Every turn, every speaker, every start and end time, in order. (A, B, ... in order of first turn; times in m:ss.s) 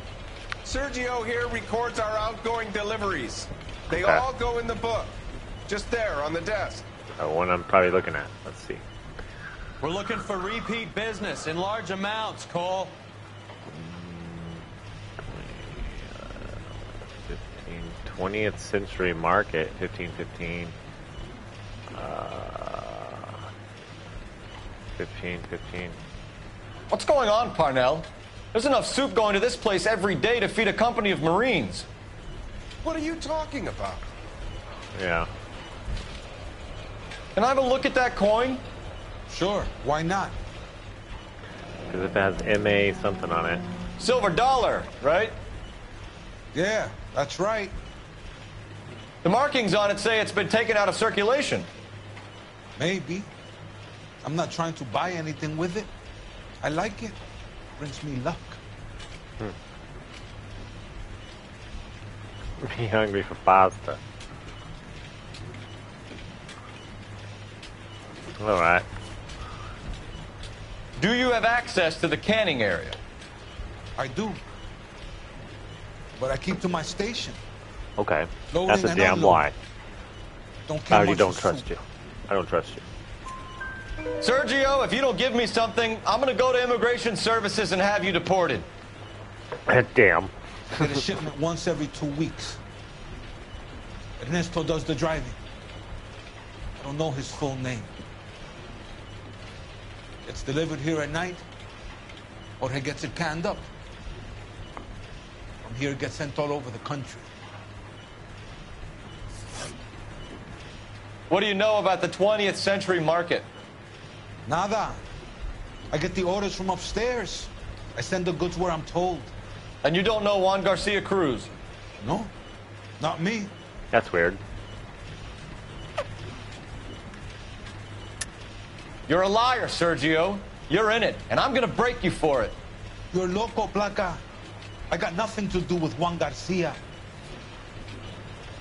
0:00.6-0:06.9 A
0:03.9-0:04.2 B
0:07.2-0:08.9 B
0:09.8-0:13.0 C
0:13.7-0:14.7 B
0:15.2-0:16.7 B
0:17.3-0:20.8 B
0:22.0-0:23.4 B
0:25.0-0:26.0 B
0:26.9-0:31.9 D
0:32.8-0:34.1 A
0:35.0-0:35.3 B
0:37.4-0:38.6 D
0:39.3-0:40.4 E
0:41.9-0:43.6 B
0:44.0-0:45.4 D
0:46.5-0:47.8 E
0:49.2-0:51.7 D
0:52.8-0:53.3 E
0:54.2-0:55.9 E
0:56.6-0:57.2 E
0:57.8-0:58.6 E
1:02.6-1:04.0 B
1:08.4-1:08.9 B
1:11.0-1:13.0 D
1:14.0-1:14.4 E
1:16.1-1:17.4 E
1:18.0-1:19.6 B
1:18.5-1:19.5 E
1:20.7-1:21.7 E
1:20.9-1:22.9 B
1:24.2-1:28.7 D
1:29.7-1:31.0 B
1:30.8-1:32.6 E
1:34.2-1:35.4 E
1:36.8-1:37.9 E
1:40.2-1:41.4 E
1:42.6-1:43.7 E
1:45.6-1:47.3 E
1:51.3-1:53.5 D
1:54.5-1:55.0 E
1:55.9-1:59.3 E
1:59.8-2:01.5 D
2:02.0-2:02.3 E
2:03.0-2:03.5 E
2:03.9-2:04.4 B
2:09.1-2:12.6 D
2:13.1-2:14.2 E
2:14.9-2:16.8 E